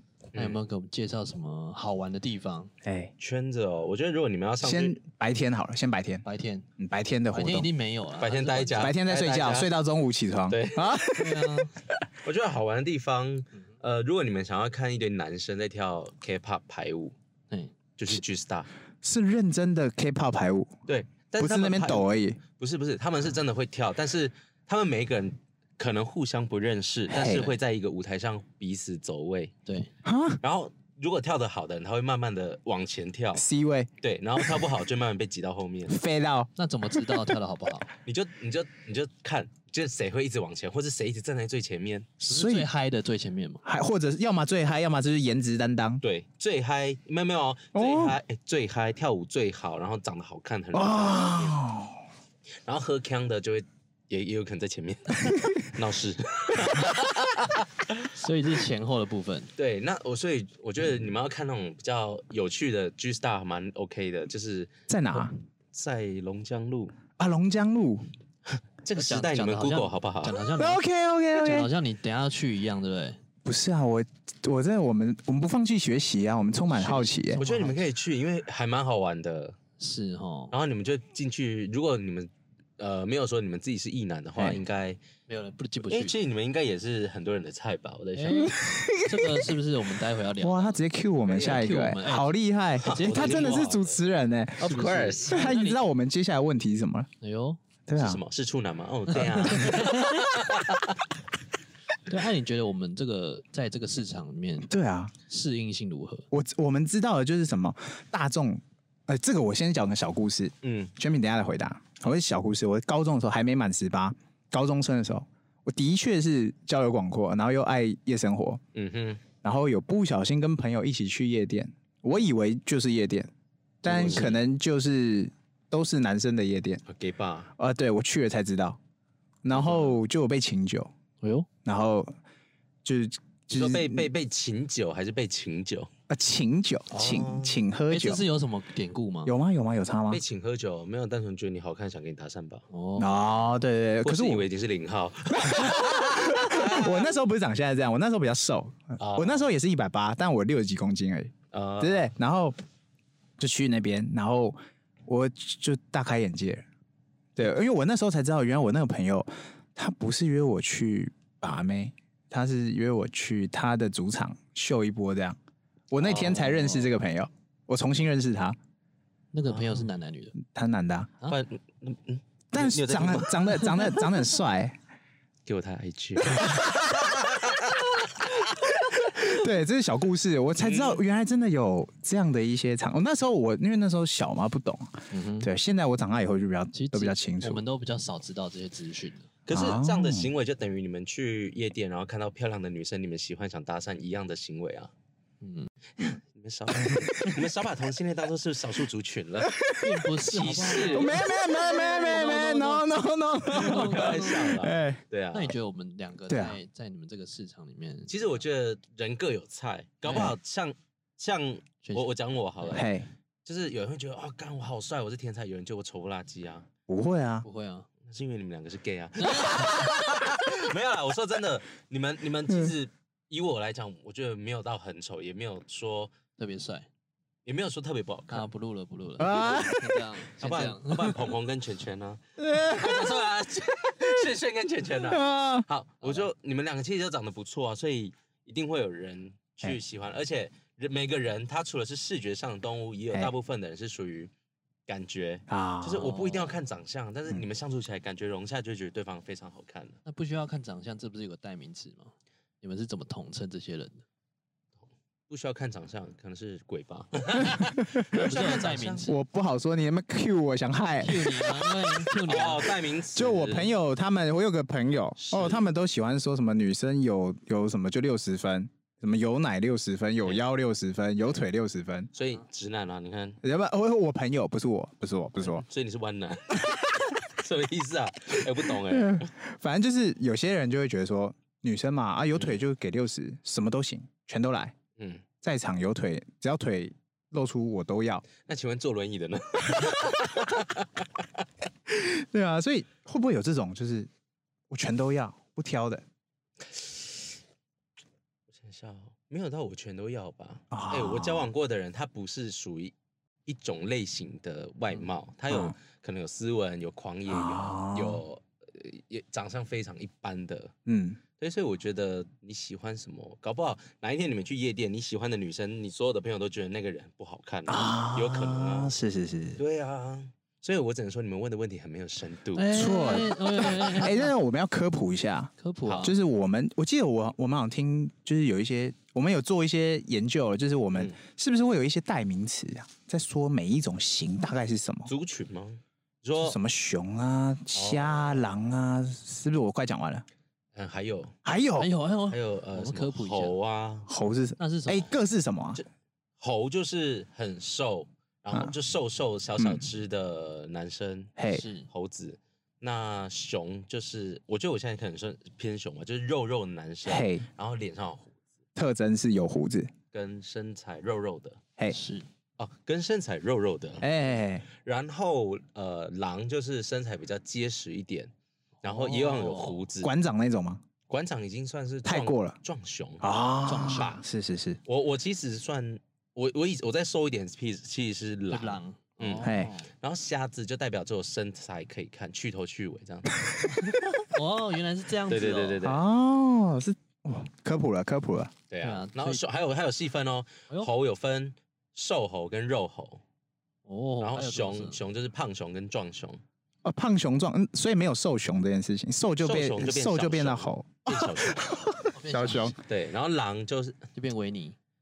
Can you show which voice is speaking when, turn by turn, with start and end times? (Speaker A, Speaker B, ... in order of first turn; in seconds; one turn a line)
Speaker A: 0.3-0.6
Speaker B: 0.4-2.7
Speaker C: 2.8-3.1
Speaker A: 3.2-5.0
Speaker C: 4.6-6.2
Speaker B: 6.2-6.7
Speaker C: 6.8-7.7
Speaker B: 7.3-8.9
Speaker A: 8.2-9.7
Speaker C: 8.8-11.7
Speaker A: 10.5-11.0
Speaker B: 11.2-11.7
Speaker A: 12.2-17.1
Speaker B: 17.5-17.8
Speaker A: 18.0-18.7
Speaker C: 19.0-20.7
Speaker A: 20.9-29.5
Speaker C: 21.4-22.4
Speaker C: 27.1-27.5
Speaker B: 29.7-29.9
Speaker C: 30.0-30.4
Speaker A: 30.4-33.5
Speaker C: 33.4-34.6
Speaker A: 34.0-36.0
Speaker C: 35.9-37.3
Speaker B: 36.6-37.9
Speaker A: 38.0-42.1
Speaker C: 42.2-42.7
Speaker B: 42.3-43.6
Speaker C: 43.6-46.0
Speaker A: 46.0-51.6
Speaker C: 47.8-48.2
Speaker C: 50.7-52.0
Speaker A: 52.6-58.1
Speaker B: 58.1-59.5
Speaker A: 59.6-67.0
Speaker C: 64.9-65.3
Speaker C: 67.2-68.1
Speaker A: 68.5-70.4
Speaker B: 69.0-70.8
Speaker C: 70.6-71.7
Speaker B: 71.3-73.2
Speaker C: 73.5-77.4
Speaker B: 76.7-77.8
Speaker A: 77.4-79.6
Speaker B: 79.8-80.5
Speaker A: 80.5-85.0
Speaker C: 84.4-84.6
Speaker B: 85.3-86.2
Speaker A: 85.8-88.5
Speaker B: 88.2-93.7
Speaker C: 88.5-89.4
Speaker C: 90.4-97.1
Speaker A: 91.3-91.7
Speaker A: 92.8-94.0
Speaker A: 94.6-95.5
Speaker B: 94.6-95.8
Speaker B: 97.2-97.6
Speaker C: 97.9-98.2
Speaker A: 98.0-101.0
Speaker B: 99.3-100.2
Speaker C: 99.6-99.9
Speaker B: 102.1-104.7
Speaker C: 104.7-105.1
Speaker B: 105.3-106.3
Speaker C: 106.3-118.6
Speaker A: 110.6-110.9
Speaker A: 118.7-119.2
Speaker C: 119.4-123.3
Speaker B: 123.8-124.4
Speaker C: 123.8-126.8
Speaker A: 123.9-124.3
Speaker A: 126.9-127.5
Speaker C: 127.6-128.8
Speaker C: 129.4-130.9
Speaker A: 129.6-130.0
Speaker B: 131.2-131.5
Speaker C: 131.7-132.1
Speaker C: 132.8-134.1
Speaker A: 133.5-135.9
Speaker C: 136.1-138.2
Speaker A: 136.9-137.6
Speaker B: 137.9-139.3
Speaker C: 139.3-140.2
Speaker A: 140.1-142.7
Speaker B: 142.7-143.2
Speaker C: 143.0-144.5
Speaker A: 144.0-147.1
Speaker C: 145.4-152.6
Speaker A: 149.0-149.5
Speaker A: 151.5-152.1
Speaker C: 153.4-156.7
Speaker C: 157.4-165.4
Speaker C: 165.9-168.6
Speaker B: 166.0-166.9
Speaker B: 169.3-170.4
Speaker A: 169.5-169.9
Speaker C: 170.4-171.1
Speaker A: 171.3-173.8
Speaker C: 172.5-174.8
Speaker A: 175.5-178.0
Speaker C: 176.3-177.0
Speaker C: 178.9-187.6
Speaker A: 180.6-181.0
Speaker B: 185.1-185.5
Speaker B: 186.7-189.3
Speaker A: 189.5-194.9
Speaker C: 189.5-190.3
Speaker B: 195.4-195.7
Speaker A: 196.0-199.6
Speaker C: 196.8-197.4
Speaker C: 199.4-200.1
Speaker B: 199.8-202.9
Speaker A: 200.2-201.2
Speaker C: 200.8-205.0
Speaker B: 203.5-204.6
Speaker A: 203.5-205.5
Speaker B: 205.3-208.3
Speaker C: 206.3-206.6
Speaker A: 208.1-212.9
Speaker B: 210.1-210.3
Speaker B: 211.8-212.9
Speaker C: 212.7-213.1
Speaker A: 213.4-216.7
Speaker C: 216.9-217.4
Speaker B: 217.4-217.9
Speaker A: 218.1-226.1
Speaker B: 219.2-219.9
Speaker B: 226.4-226.9
Speaker A: 227.5-228.5
Speaker B: 228.3-231.2
Speaker C: 229.2-230.0
Speaker A: 230.4-244.3
Speaker C: 232.4-233.3
Speaker C: 234.0-234.3
Speaker C: 234.9-235.7
Speaker B: 236.0-236.3
Speaker A: 244.9-250.0
Speaker C: 245.5-246.1
Speaker B: 246.0-246.6
Speaker B: 250.1-254.0
Speaker A: 255.3-259.1
Speaker C: 257.4-258.4
Speaker B: 258.1-259.2
Speaker C: 259.1-261.5
Speaker B: 261.0-262.7
Speaker A: 262.3-263.7
Speaker C: 263.1-272.1
Speaker A: 265.2-265.6
Speaker A: 272.1-273.4
Speaker C: 273.4-275.6
Speaker A: 275.4-279.3
Speaker C: 278.9-284.8
Speaker A: 282.4-282.6
Speaker A: 285.0-285.2
Speaker C: 285.4-288.3
Speaker A: 288.4-291.2
Speaker C: 289.6-290.5
Speaker C: 291.9-294.1
Speaker C: 294.7-296.0
Speaker A: 296.7-297.1
Speaker A: 298.5-302.9
Speaker C: 300.7-301.5
Speaker A: 303.5-310.7
Speaker C: 305.5-305.8
Speaker C: 307.3-308.2
Speaker C: 310.9-311.2
Speaker A: 311.4-318.9
Speaker C: 317.7-319.6
Speaker A: 319.6-323.2
Speaker B: 322.5-324.3
Speaker C: 322.7-335.1
Speaker B: 325.6-326.2
Speaker A: 325.9-326.1
Speaker A: 335.1-336.6
Speaker C: 336.4-340.2
Speaker A: 337.7-338.5
Speaker A: 340.8-341.4
Speaker C: 341.4-341.9
Speaker B: 341.8-343.6
Speaker A: 342.3-344.1
Speaker C: 344.1-345.8
Speaker B: 344.6-345.1
Speaker A: 346.4-358.3
Speaker C: 349.6-349.9
Speaker C: 351.4-351.6
Speaker B: 351.5-351.9
Speaker C: 357.1-357.5
Speaker C: 358.8-359.9
Speaker A: 360.1-361.6
Speaker B: 361.9-362.3
Speaker A: 362.6-364.1
Speaker C: 364.0-364.7
Speaker A: 364.8-368.3
Speaker B: 368.8-369.8
Speaker A: 368.8-370.1
Speaker C: 370.0-370.8
Speaker A: 371.1-374.2
Speaker C: 372.1-372.6
Speaker C: 373.2-374.8
Speaker B: 373.7-374.1
Speaker A: 374.9-383.4
Speaker B: 378.5-379.9
Speaker C: 379.4-379.7
Speaker B: 383.7-385.8
Speaker A: 385.3-386.0
Speaker C: 385.8-388.5
Speaker A: 388.7-393.2
Speaker B: 388.8-389.4
Speaker B: 393.9-395.0
Speaker A: 394.2-396.4
Speaker C: 396.8-402.8
Speaker A: 399.4-401.7
Speaker B: 402.1-402.8
Speaker A: 402.9-404.1
Speaker B: 404.1-404.8